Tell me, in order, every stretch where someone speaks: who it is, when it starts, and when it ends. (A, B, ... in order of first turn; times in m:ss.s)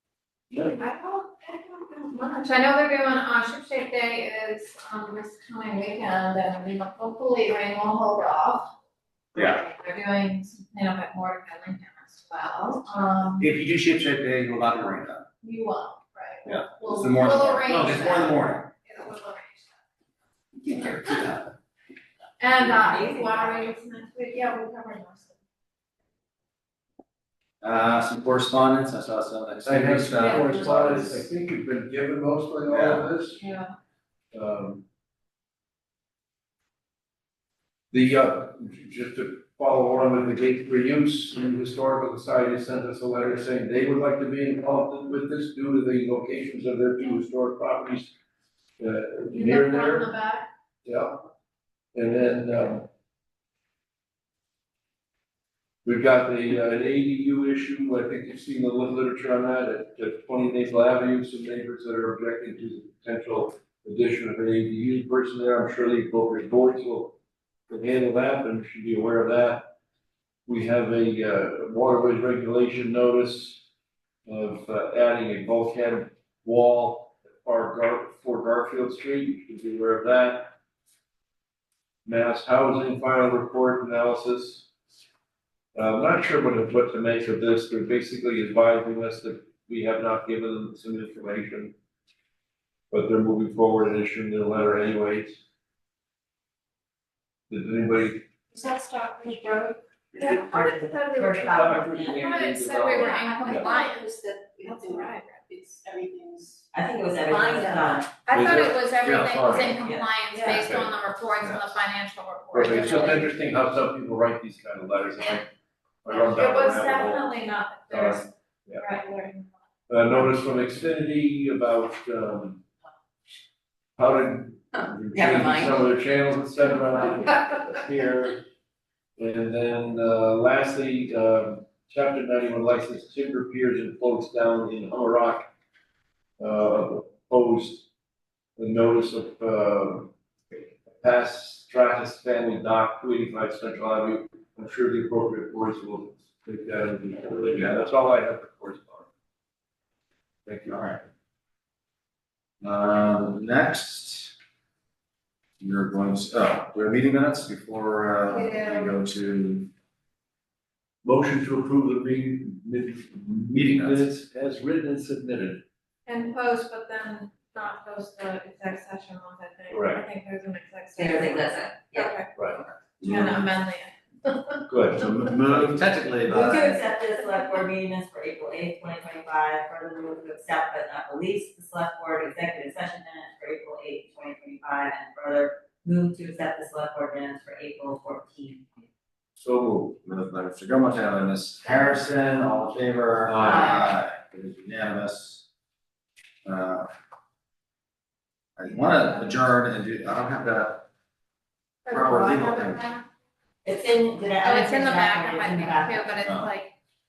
0:00.8-0:08.7 A
0:00.9-0:02.3 B
0:09.3-0:13.5 A
0:09.4-0:09.6 C
0:13.4-0:15.3 C
0:15.4-0:19.7 A
0:16.4-0:18.7 C
0:20.7-0:21.4 C
0:22.4-0:25.4 A
0:22.6-0:23.7 D
0:27.6-0:31.3 C
0:29.6-0:33.4 E
0:30.2-0:30.5 A
0:32.7-0:33.0 C
0:33.4-0:33.7 A
0:34.3-0:34.8 E
0:37.9-0:48.1 E
0:48.8-0:50.1 E
0:49.3-0:50.5 A
0:50.8-0:51.2 E
0:52.0-0:52.9 E
0:55.8-1:07.2 E
1:07.7-1:09.7 E
1:10.5-1:13.6 E
1:14.3-1:20.6 E
1:22.0-1:24.7 E
1:25.7-1:31.8 E
1:32.9-1:35.4 E
1:37.5-1:38.2 E
1:38.5-1:41.4 B
1:40.2-1:42.3 D
1:41.4-1:43.7 E
1:42.1-1:44.1 A
1:42.2-1:46.6 B
1:46.7-1:48.1 D
1:47.3-1:48.1 B
1:48.2-1:53.3 A
1:48.3-1:49.7 E
1:49.0-1:49.4 C
1:49.6-1:50.1 D
1:50.3-1:50.6 B
1:50.5-1:51.7 E
1:52.5-1:55.5 E
1:56.0-1:57.3 E
1:56.1-1:59.5 A
1:57.9-1:58.8 E
1:59.9-2:02.6 E
2:04.0-2:08.4 E
2:05.1-2:05.8 D
2:09.2-2:15.5 E
2:16.4-2:17.9 E
2:18.6-2:29.1 E
2:30.5-2:30.9 E
2:30.7-2:31.0 C
2:32.6-2:34.4 C
2:35.6-2:39.7 C
2:38.3-2:38.9 A
2:41.0-2:45.6 E
2:43.5-2:44.1 C
2:46.1-2:52.3 A
2:49.7-2:50.0 E
2:51.0-2:52.8 D
2:53.0-2:53.4 C
2:53.0-2:54.7 A
2:54.7-2:55.8 E
2:55.0-2:56.7 C
2:56.3-3:08.7 D
3:09.4-3:10.0 E
3:10.0-3:15.5 C
3:13.3-3:13.8 E
3:16.4-3:16.9 C
3:18.6-3:20.9 C
3:21.9-3:23.0 A
3:21.9-3:22.8 C
3:23.6-3:26.2 D
3:24.4-3:26.7 A
3:26.2-3:26.5 C